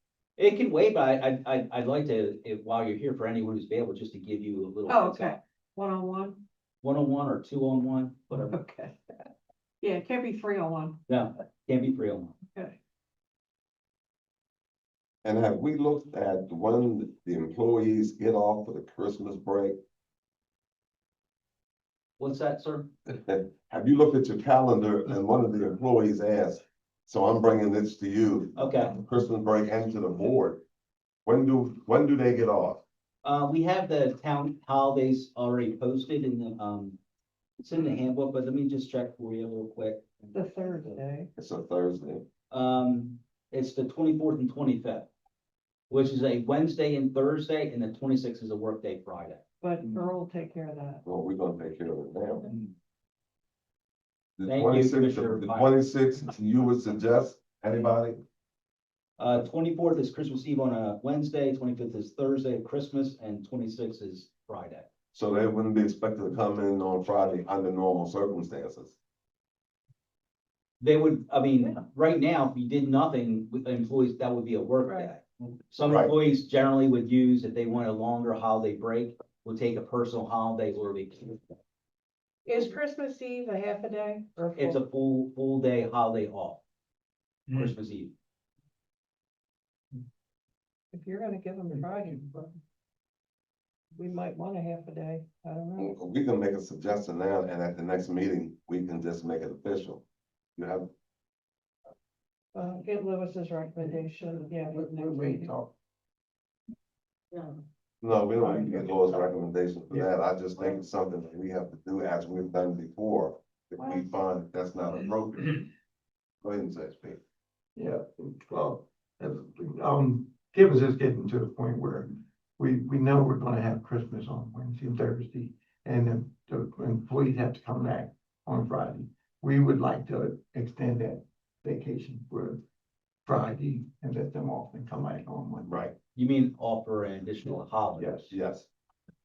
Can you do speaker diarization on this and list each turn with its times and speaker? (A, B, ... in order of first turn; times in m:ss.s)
0:00.4-0:05.4 A
0:04.9-0:06.4 B
0:06.8-0:08.6 A
0:08.3-0:09.2 B
0:09.8-0:11.0 B
0:11.1-0:12.4 A
0:15.2-0:19.8 C
0:22.2-0:22.9 A
0:23.1-0:30.6 C
0:28.6-0:29.0 A
0:31.3-0:32.8 C
0:33.2-0:37.0 A
0:37.6-0:40.1 A
0:40.3-0:41.3 B
0:41.4-0:42.2 C
0:42.5-0:45.1 A
0:45.9-0:49.4 A
0:49.6-0:51.0 B
0:51.0-0:52.5 C
0:54.4-0:58.2 C
0:54.4-0:55.7 A
0:59.2-1:04.9 A
1:05.1-1:09.0 C
1:10.8-1:21.6 A
1:14.8-1:15.1 B
1:15.8-1:16.1 C
1:22.5-1:24.8 B
1:24.6-1:26.6 A
1:27.5-1:28.1 A
1:30.9-1:32.6 B
1:33.9-1:35.9 B
1:35.8-1:40.0 C
1:40.6-1:40.9 C
1:42.5-1:45.5 B
1:43.9-1:45.7 D
1:48.0-1:55.6 C
1:48.4-1:49.2 D
1:56.4-1:57.2 C
1:57.8-2:12.6 D
2:13.3-2:15.8 D
2:15.7-2:16.0 C
2:16.2-2:18.3 A
2:18.0-2:18.3 D
2:18.3-2:18.7 C